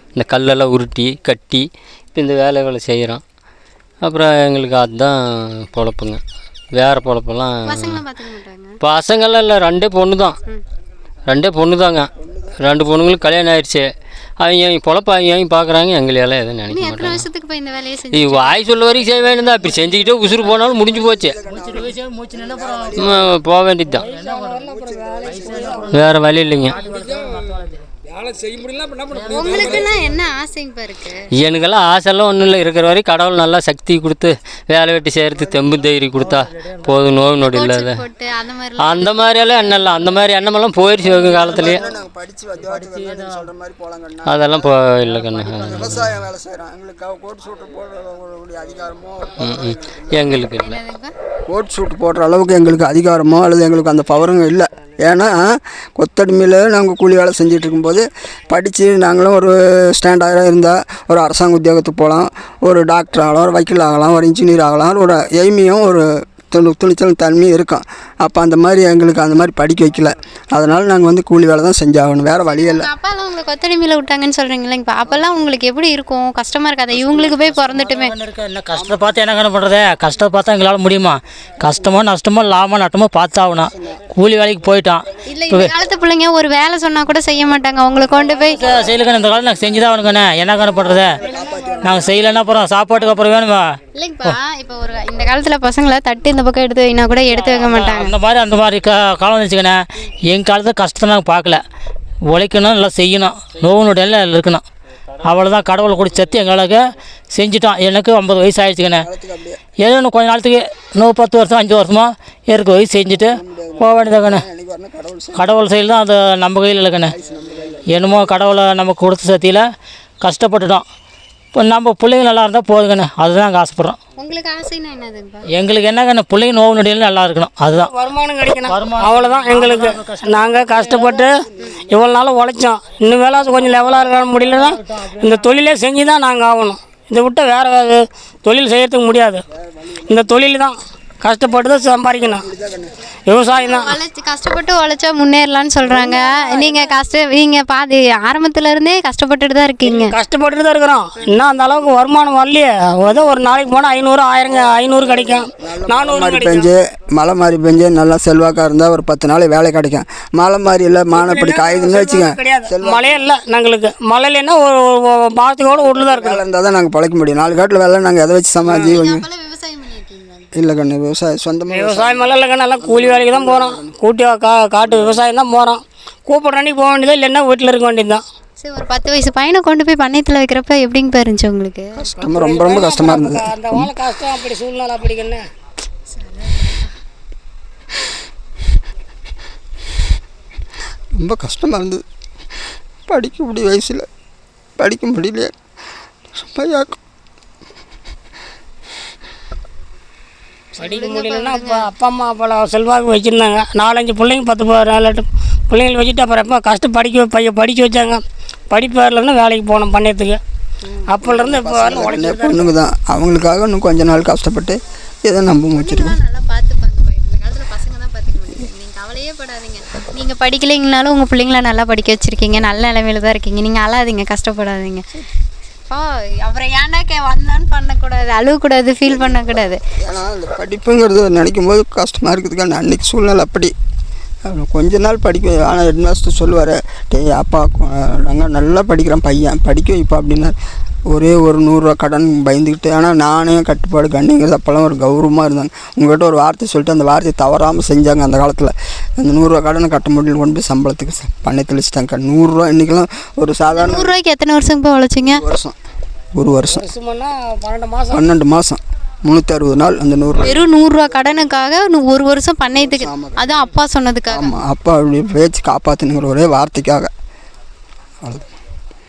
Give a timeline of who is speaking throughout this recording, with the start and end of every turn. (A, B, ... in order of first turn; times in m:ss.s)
0:00.2-0:03.2 A
0:04.0-0:06.2 A
0:06.7-0:08.0 A
0:07.6-0:08.7 B
0:08.8-0:10.4 A
0:11.3-0:13.9 A
0:14.4-0:17.3 A
0:16.7-0:18.6 B
0:18.1-0:21.4 A
0:20.8-0:23.3 C
0:21.7-0:22.9 D
0:23.0-0:24.1 A
0:24.0-0:24.6 D
0:24.1-0:25.9 E
0:24.7-0:25.8 C
0:25.3-0:25.6 D
0:25.9-0:26.8 A
0:26.8-0:27.1 D
0:26.9-0:27.4 F
0:28.0-0:29.9 F
0:29.2-0:29.5 D
0:29.3-0:31.3 B
0:31.4-0:38.0 A
0:37.5-0:40.1 B
0:38.8-0:41.8 A
0:41.2-0:44.7 C
0:44.3-0:46.1 A
0:45.6-0:50.3 C
0:49.4-0:50.8 A
0:50.3-0:51.1 B
0:51.5-1:12.9 C
1:12.5-1:18.1 B
1:16.9-1:25.7 D
1:25.3-1:28.6 B
1:28.4-1:31.2 D
1:31.2-1:32.1 C
1:31.8-1:34.4 D
1:34.0-1:38.2 B
1:37.3-1:41.6 D
1:42.3-1:44.6 D
1:45.2-1:46.8 D
1:47.3-1:49.1 D
1:49.0-1:49.6 C
1:49.8-1:54.4 D
1:53.0-1:55.6 C
1:55.4-1:57.1 D
1:57.2-1:57.8 C
1:57.9-1:59.7 D
2:00.2-2:00.8 D
2:01.6-2:04.0 D
2:04.2-2:05.4 B
2:05.5-2:07.9 D
2:07.8-2:11.4 E
2:08.7-2:11.2 D
2:11.9-2:19.4 E
2:14.4-2:15.5 D
2:20.0-2:22.5 E
2:22.5-2:22.9 C
2:23.3-2:24.0 E
2:23.5-2:30.2 B
2:26.1-2:27.0 E
2:29.8-2:36.7 E
2:34.7-2:43.3 C
2:41.1-2:46.4 E
2:45.9-2:49.3 C
2:48.8-2:50.5 B
2:50.5-2:54.0 C
2:51.7-2:58.2 E
2:54.8-2:55.2 C
2:58.6-3:01.9 B
3:02.0-3:03.9 C
3:02.2-3:05.4 E
3:06.1-3:06.9 B
3:11.2-3:12.0 C
3:13.1-3:14.1 C
3:14.8-3:15.5 C
3:16.4-3:17.0 C
3:20.8-3:21.9 B
3:20.8-3:30.4 E
3:31.1-3:32.7 E
3:31.2-3:36.2 C
3:35.7-3:45.0 B
3:45.9-3:49.8 B
3:49.1-3:49.4 C
3:50.0-3:53.7 C
3:54.4-4:00.6 C
4:01.1-4:14.1 C
4:13.7-4:15.4 B
4:15.2-4:15.8 C
4:16.4-4:16.9 C
4:16.7-4:18.3 E
4:18.1-4:20.6 C
4:20.4-4:24.5 B
4:22.7-4:23.4 C
4:24.3-4:27.1 C
4:28.2-4:28.5 C